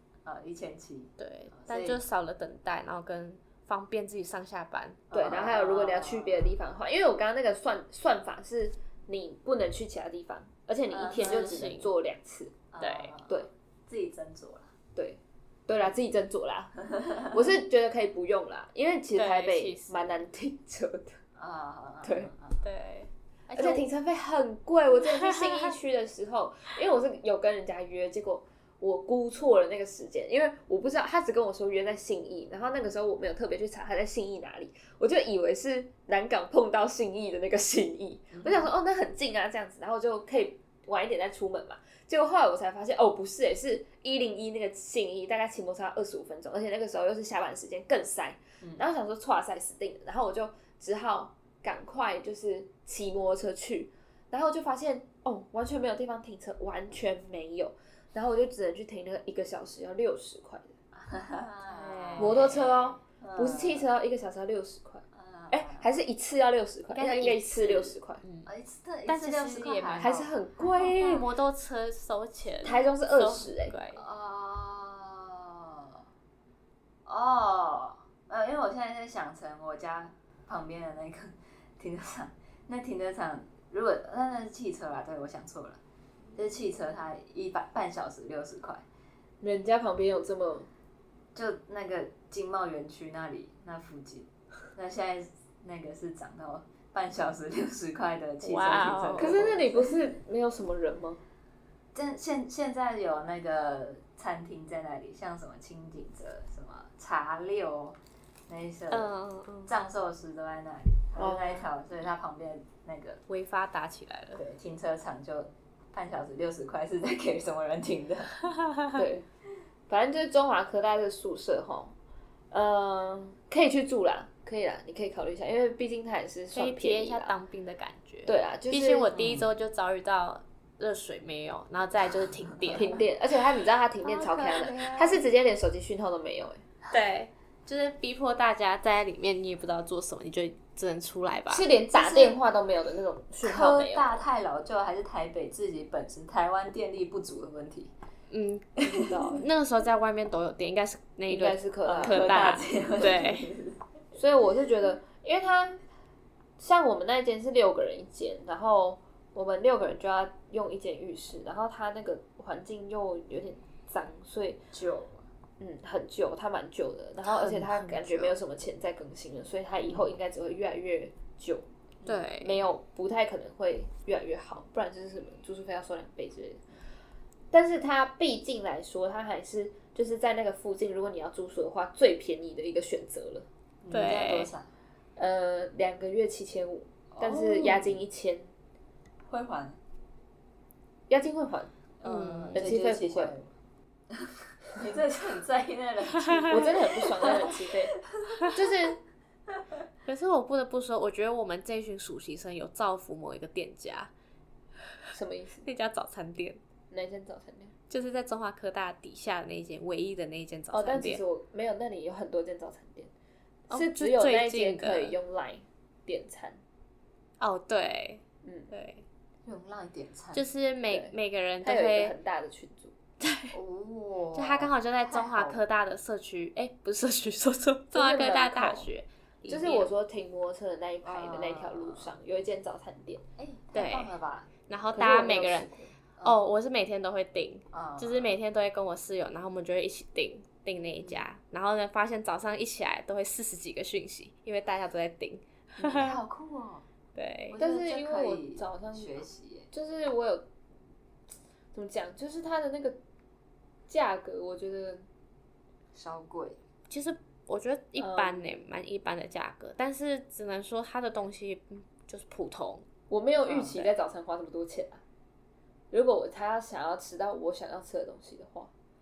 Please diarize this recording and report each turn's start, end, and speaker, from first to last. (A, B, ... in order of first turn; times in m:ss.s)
0:00.2-0:02.0 A
0:01.2-0:05.0 B
0:05.1-0:06.6 A
0:05.1-0:12.6 C
0:10.9-0:11.6 A
0:11.1-0:11.9 B
0:12.7-0:14.8 A
0:12.8-0:13.1 B
0:15.0-0:21.2 C
0:19.2-0:19.9 B
0:21.4-0:22.6 A
0:22.0-0:22.3 C
0:22.6-0:23.9 B
0:23.6-1:00.7 C
0:38.3-0:38.7 A
1:00.9-1:03.9 A
1:01.7-1:02.8 B
1:02.2-1:08.2 C
1:05.1-1:05.9 A
1:06.9-1:07.5 B
1:07.6-1:07.9 A
1:08.2-1:08.5 B
1:08.4-1:10.3 A
1:09.1-1:10.1 B
1:10.0-1:11.3 C
1:10.8-1:14.0 B
1:12.6-1:13.7 C
1:13.9-1:16.0 A
1:17.1-1:25.8 A
1:26.4-1:28.8 A
1:29.4-1:30.7 C
1:31.3-1:40.0 A
1:38.4-1:39.5 B
1:39.2-1:41.2 C
1:41.9-1:49.1 A
1:48.9-1:49.8 B
1:49.7-1:53.2 A
1:51.2-1:51.6 C
1:53.3-1:54.4 B
1:54.3-1:58.4 A
1:59.0-1:59.2 C
1:59.9-2:01.9 C
2:02.5-2:07.4 C
2:06.5-2:13.0 B
2:08.3-2:09.4 C
2:09.1-2:09.5 A
2:12.7-2:16.6 C
2:14.0-2:15.2 A
2:16.9-2:21.7 B
2:21.5-2:24.3 C
2:22.0-2:22.3 A
2:23.4-2:27.9 A
2:28.3-2:33.5 B
2:28.8-2:29.5 C
2:29.0-2:29.3 A
2:31.3-2:32.5 C
2:31.8-2:33.8 A
2:34.2-2:35.8 C
2:36.6-2:44.7 C
2:44.7-2:45.2 A
2:45.6-2:51.7 C
2:47.2-2:48.4 B
2:52.0-2:52.3 A
2:52.1-2:52.6 B
2:52.4-2:56.6 C
2:57.5-3:03.5 C
3:03.8-3:04.7 A
3:03.9-3:04.5 B
3:05.2-3:08.5 C
3:07.1-3:08.0 A
3:09.3-3:09.8 A
3:11.1-3:11.7 C
3:12.0-3:13.6 A
3:12.0-3:12.7 B
3:12.6-3:13.4 C
3:14.1-3:18.4 A
3:16.2-3:16.5 B
3:16.5-3:18.0 C
3:18.5-3:19.0 C
3:20.1-3:24.1 B
3:25.1-3:25.7 C
3:25.6-3:26.6 B
3:26.9-3:27.7 C
3:27.9-3:31.2 B
3:30.7-3:33.1 C
3:33.7-3:35.2 B
3:33.7-3:36.6 C
3:37.4-3:39.0 B
3:38.4-3:38.7 C
3:39.4-3:40.5 A
3:40.3-3:42.2 B
3:40.9-3:42.9 C
3:43.2-3:43.6 B
3:43.5-3:45.6 A
3:44.3-3:49.9 B
3:47.9-3:48.9 C
3:49.5-3:53.2 C
3:51.0-3:52.2 A
3:53.4-3:54.6 A
3:53.8-3:54.1 B
3:54.7-3:55.7 B
3:54.9-3:55.9 C
3:56.2-3:56.4 A
3:56.2-4:06.2 B
3:57.7-3:58.4 A
4:01.0-4:01.3 A
4:05.8-4:06.8 A
4:07.2-4:07.6 B
4:07.5-4:09.7 A
4:07.5-4:09.2 C
4:09.7-4:10.5 C
4:11.7-4:13.0 C
4:13.9-4:15.1 C
4:15.9-4:16.6 A
4:16.9-4:22.9 B
4:18.0-4:18.6 C
4:23.1-4:25.0 C
4:23.5-4:23.9 B
4:25.9-4:28.7 C